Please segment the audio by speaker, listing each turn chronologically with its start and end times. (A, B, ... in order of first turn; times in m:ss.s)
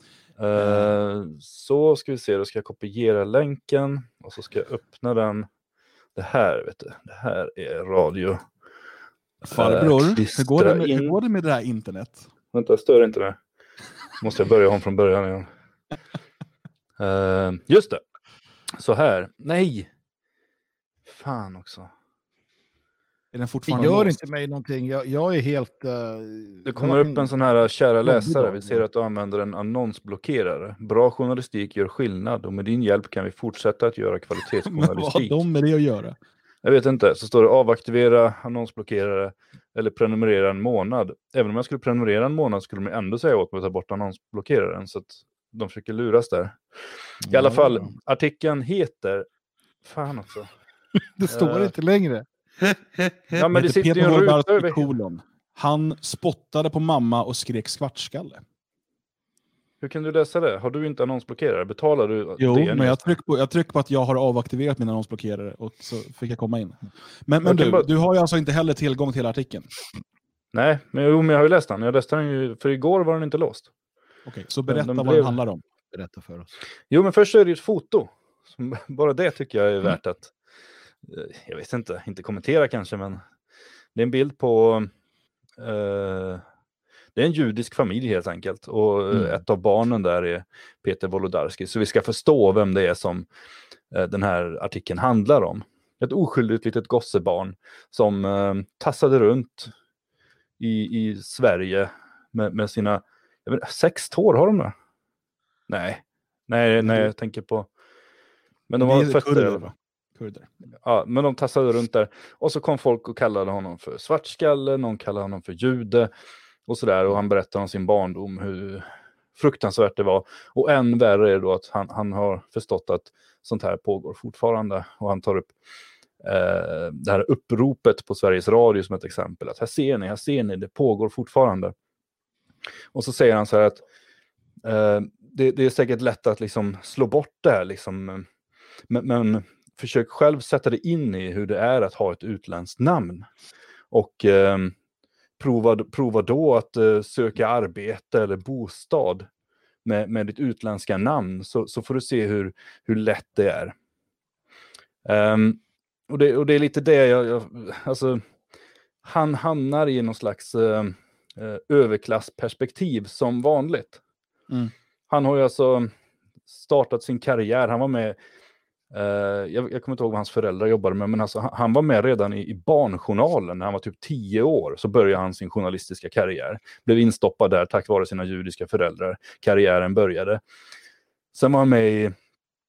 0:00.4-0:05.5 A
0:00.6-0:00.9 B
0:06.2-0:08.4 A
0:09.4-0:12.3 B
0:09.4-0:11.1 A
0:12.5-0:13.4 A
0:14.2-0:15.5 A
0:17.0-0:18.0 A
0:18.7-0:19.9 A
0:21.0-0:21.9 A
0:23.3-0:24.2 B
0:23.7-0:27.3 C
0:26.6-0:35.4 A
0:28.0-0:28.8 C
0:34.6-0:36.2 B
0:36.6-0:49.2 A
0:47.3-0:47.8 C
0:49.8-0:50.5 A
0:51.2-0:52.2 C
0:51.3-0:51.7 A
0:53.3-0:54.8 A
0:53.3-0:58.4 B
0:59.8-1:03.0 A
1:02.4-1:09.7 B
1:07.4-1:07.8 A
1:10.5-1:13.7 A
1:14.2-1:15.6 B
1:14.7-1:15.4 A
1:15.9-1:16.5 C
1:16.9-1:20.3 A
1:21.0-1:23.2 A
1:23.9-1:24.9 A
1:25.6-1:26.4 A
1:27.1-1:33.2 A
1:33.9-1:39.7 A
1:40.6-1:44.7 A
1:45.7-1:47.7 A
1:48.7-1:49.7 A
1:48.8-1:50.5 B
1:50.8-1:56.1 A
1:56.7-2:05.5 A
2:06.2-2:11.7 A
2:12.9-2:13.8 A
2:14.6-2:18.3 A
2:18.9-2:23.3 A
2:23.9-2:24.7 A
2:25.4-2:29.3 A
2:29.8-2:33.7 A
2:35.0-2:38.2 A
2:39.0-2:44.0 A
2:45.1-2:45.9 A
2:46.5-2:48.2 A
2:48.9-3:00.4 A
3:01.3-3:02.1 A